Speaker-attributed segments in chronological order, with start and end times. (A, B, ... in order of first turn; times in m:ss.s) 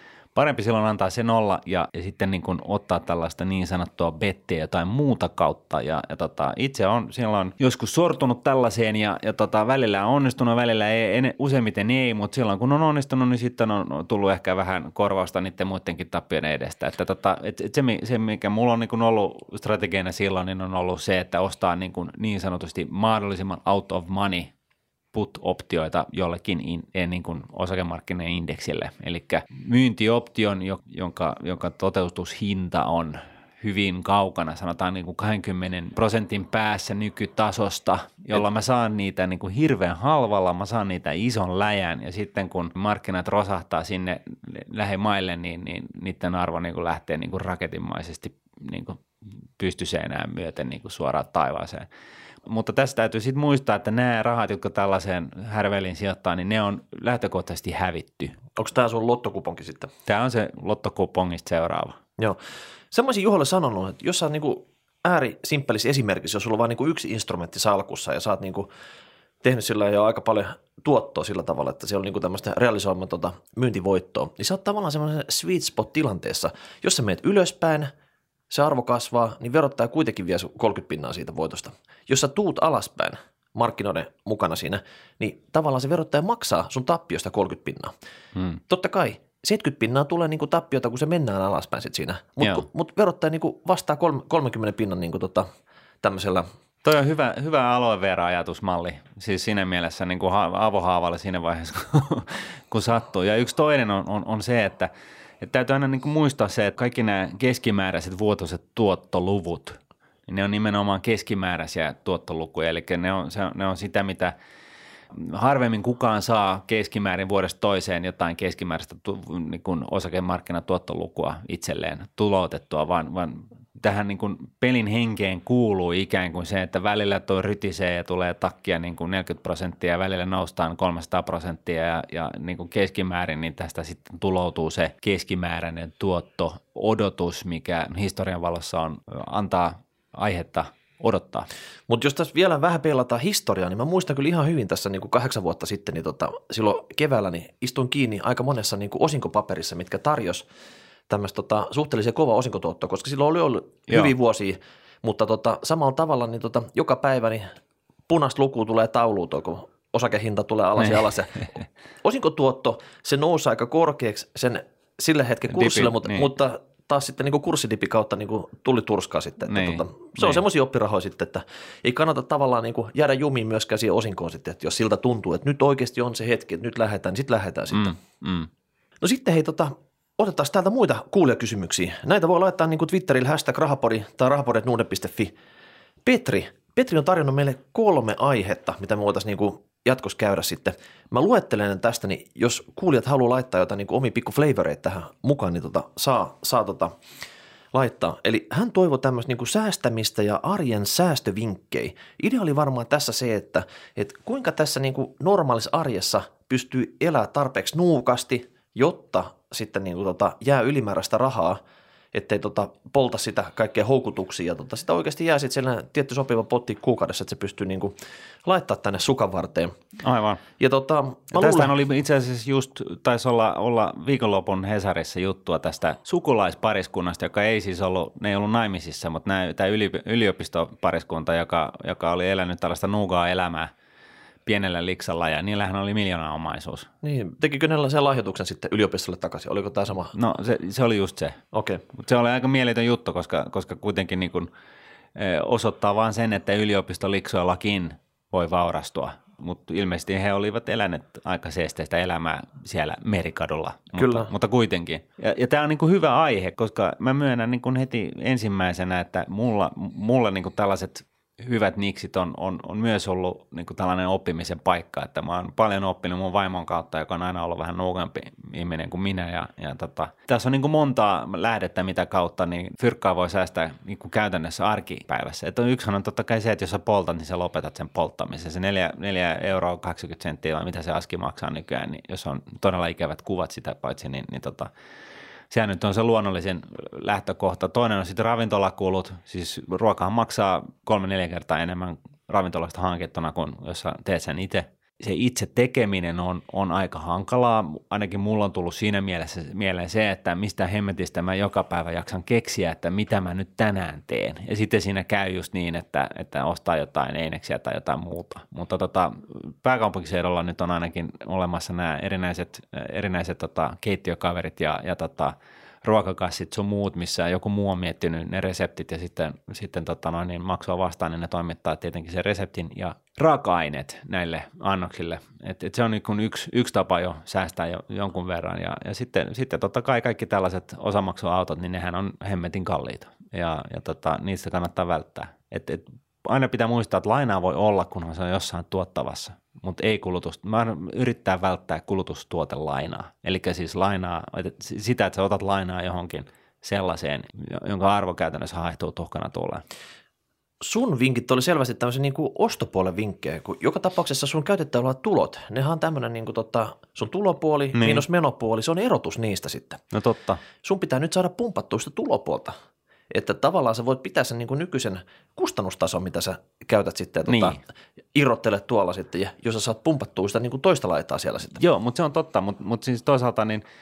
0:00.4-0:24.5 A
0:25.1-0:49.0 A
0:49.6-0:51.9 A
0:52.5-0:58.4 A
0:58.6-0:59.9 B
1:00.1-1:02.0 A
1:02.9-1:08.7 B
1:09.4-1:17.9 B
1:18.5-1:27.9 B
1:28.7-1:35.5 B
1:36.0-1:36.5 B
1:36.8-1:54.3 A
1:55.1-2:21.5 A
2:21.9-2:30.4 B
2:31.1-2:37.5 B
2:38.1-2:41.5 B
2:40.8-2:41.4 A
2:42.0-2:58.0 B
2:45.5-2:46.3 A
2:49.5-2:50.4 A
2:57.7-2:58.5 A
2:59.0-3:05.3 B
3:06.0-3:17.0 B
3:17.7-3:31.6 B
3:32.1-3:39.7 B
3:40.0-3:40.4 A
3:40.6-3:41.7 B
3:41.3-3:53.7 A
3:54.5-3:56.9 A
3:57.0-4:00.1 B
4:00.1-4:01.4 A
4:01.5-4:01.8 B
4:01.9-4:04.5 A
4:05.2-4:44.7 A
4:14.0-4:14.3 B
4:45.5-5:49.6 A
5:50.6-5:59.8 B
5:57.8-5:58.0 A
5:59.9-6:00.4 A
6:00.6-6:02.6 B
6:03.1-6:07.6 B
6:07.3-6:07.6 A
6:08.1-6:11.6 B
6:11.6-6:13.6 A